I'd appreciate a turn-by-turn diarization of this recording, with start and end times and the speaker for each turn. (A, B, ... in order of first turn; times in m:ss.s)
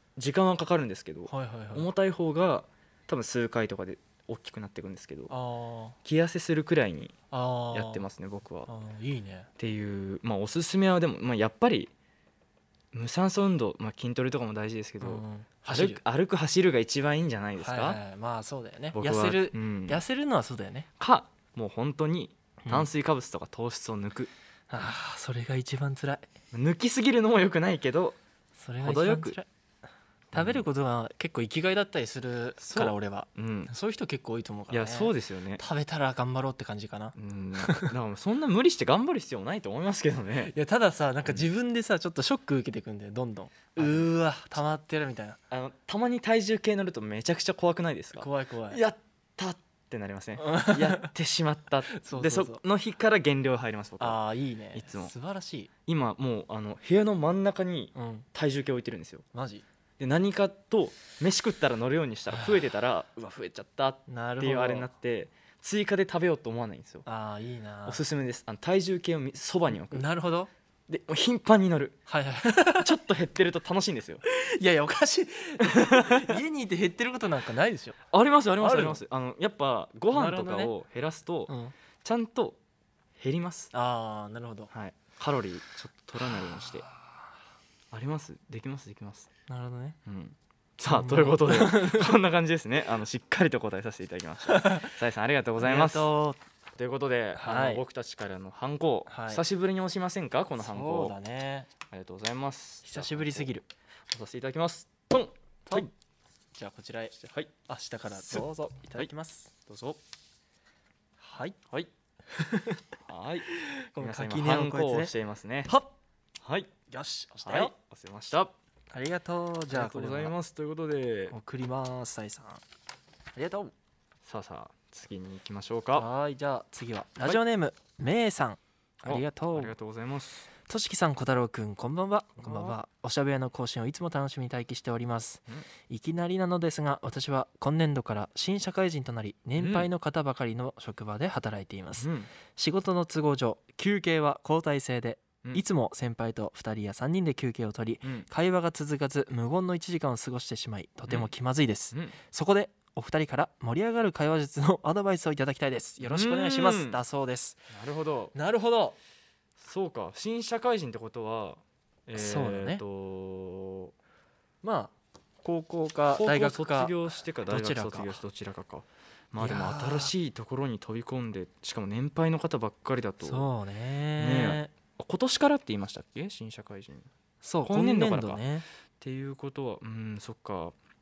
0:00.2-0:05.3 A
0:01.3-0:01.9 B
0:05.3-0:06.0 B
0:06.0-0:07.2 A
0:07.3-0:08.0 B
0:07.7-0:08.7 A
0:08.6-0:09.5 B
0:09.6-0:11.9 A
0:12.9-0:18.0 A
0:15.0-0:16.0 B
0:17.6-0:20.9 B
0:18.9-0:20.0 A
0:21.0-0:24.3 A
0:22.6-0:22.9 B
0:24.7-0:26.3 B
0:26.5-0:28.2 A
0:28.6-0:29.5 B
0:28.8-0:29.4 A
0:30.3-0:37.9 B
0:30.3-0:30.6 A
0:32.6-0:33.7 A
0:34.7-0:35.6 A
0:37.2-0:40.5 A
0:40.4-0:45.4 B
0:43.8-0:44.1 A
0:45.5-0:54.2 A
0:48.2-0:48.8 B
0:50.4-0:51.1 B
0:51.9-0:52.6 B
0:54.0-0:55.7 B
0:54.7-0:55.1 A
0:55.9-0:59.2 A
0:58.0-0:58.3 B
0:59.3-0:59.6 B
1:00.0-1:07.0 A
1:02.3-1:02.6 B
1:04.1-1:04.9 B
1:07.0-1:08.0 B
1:07.8-1:10.0 A
1:09.7-1:10.5 B
1:10.9-1:12.0 A
1:12.1-1:13.0 B
1:12.8-1:14.2 A
1:14.2-1:18.0 B
1:15.6-1:16.4 A
1:18.1-1:21.5 A
1:18.6-1:19.0 B
1:20.1-1:20.7 B
1:21.5-1:21.7 B
1:22.0-1:22.6 A
1:23.2-1:23.7 A
1:23.7-1:24.7 B
1:24.7-1:26.9 A
1:27.9-1:29.3 A
1:29.5-1:30.0 B
1:30.0-1:36.1 A
1:30.9-1:32.1 B
1:34.5-1:34.9 B
1:35.6-1:36.4 B
1:36.8-1:41.1 A
1:37.4-1:37.8 B
1:39.1-1:39.4 B
1:40.6-1:41.7 B
1:41.9-1:43.5 A
1:42.8-1:43.6 B
1:44.1-1:45.9 A
1:45.6-1:45.9 B
1:46.5-1:49.5 B
1:47.2-1:47.5 A
1:48.1-1:48.5 A
1:49.7-1:50.0 A
1:51.2-1:51.6 B
1:52.3-1:52.8 B
1:53.1-1:55.7 A
1:53.5-1:55.1 B
1:55.7-1:55.9 B
1:56.4-1:56.7 A
1:56.9-1:57.7 B
1:57.4-1:58.5 A
1:58.9-2:00.4 B
1:59.7-2:01.4 A
2:01.3-2:02.6 B
2:03.4-2:03.7 B
2:04.2-2:06.1 A
2:06.0-2:09.7 B
2:09.0-2:10.5 A
2:10.7-2:37.7 B
2:12.4-2:12.8 A
2:19.6-2:19.9 A
2:22.0-2:22.3 A
2:36.0-2:37.0 A
2:37.7-2:38.3 A
2:38.3-2:39.0 B
2:39.6-2:43.9 A
2:42.2-2:42.8 B
2:44.6-2:48.2 B
2:46.1-2:53.5 A
2:49.4-2:50.1 B
2:53.2-2:54.7 B
2:54.2-2:57.1 A
2:57.4-2:58.6 B
2:57.6-2:58.4 A
2:59.0-3:00.8 A